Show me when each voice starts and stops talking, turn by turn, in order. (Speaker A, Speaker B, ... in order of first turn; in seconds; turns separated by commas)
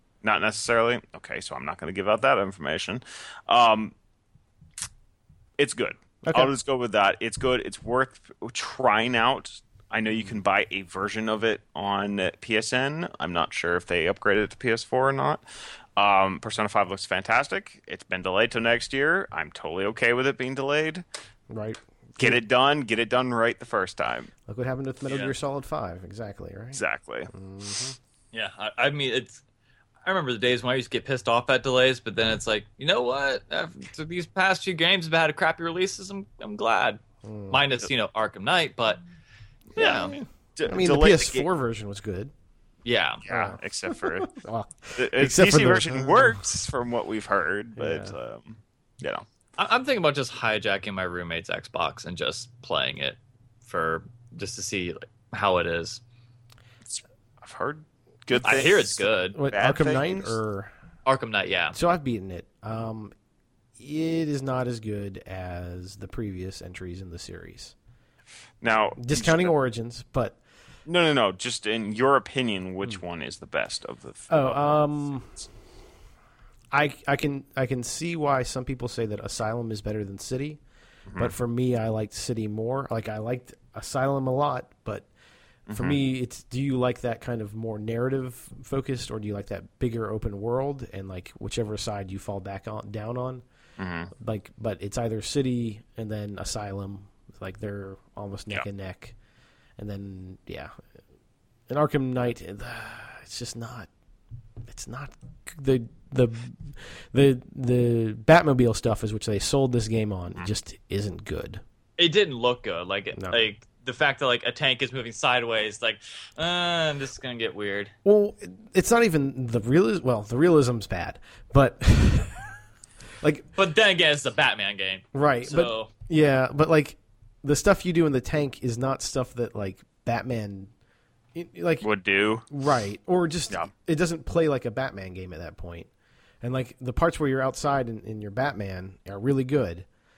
Speaker A: 0.2-3.9, Speaker A: 5.6-15.4, Speaker B: 6.2-6.5, Speaker A: 16.0-21.0, Speaker B: 21.5-22.4, Speaker A: 22.2-24.3, Speaker B: 24.5-27.9, Speaker C: 25.1-25.3, Speaker A: 26.7-27.3, Speaker C: 28.3-29.4, Speaker C: 30.0-39.0, Speaker B: 37.2-37.6, Speaker A: 39.7-41.5, Speaker C: 39.8-40.1, Speaker B: 40.6-42.3, Speaker C: 42.8-43.2, Speaker A: 43.2-44.4, Speaker B: 43.3-46.4, Speaker A: 44.9-49.2, Speaker B: 47.8-48.1, Speaker C: 49.6-56.0, Speaker A: 56.9-60.4, Speaker C: 58.4-59.4, Speaker B: 59.4-60.7, Speaker C: 61.0-61.8, Speaker B: 61.7-63.1, Speaker B: 63.8-67.7, Speaker A: 68.6-69.5, Speaker B: 69.0-70.4, Speaker A: 70.8-75.5, Speaker B: 74.3-75.3, Speaker B: 76.7-80.6, Speaker A: 81.1-81.3, Speaker B: 81.2-85.1, Speaker A: 85.7-86.0, Speaker B: 85.7-93.4, Speaker A: 93.8-94.1, Speaker B: 94.2-99.1, Speaker B: 99.8-100.7, Speaker B: 101.7-103.9, Speaker B: 104.7-111.6, Speaker C: 112.0-117.9, Speaker B: 118.0-122.5, Speaker B: 123.2-123.5, Speaker C: 123.5-125.9, Speaker B: 125.1-130.7, Speaker B: 131.3-131.9, Speaker A: 131.8-132.4, Speaker B: 132.5-135.9, Speaker B: 136.4-139.8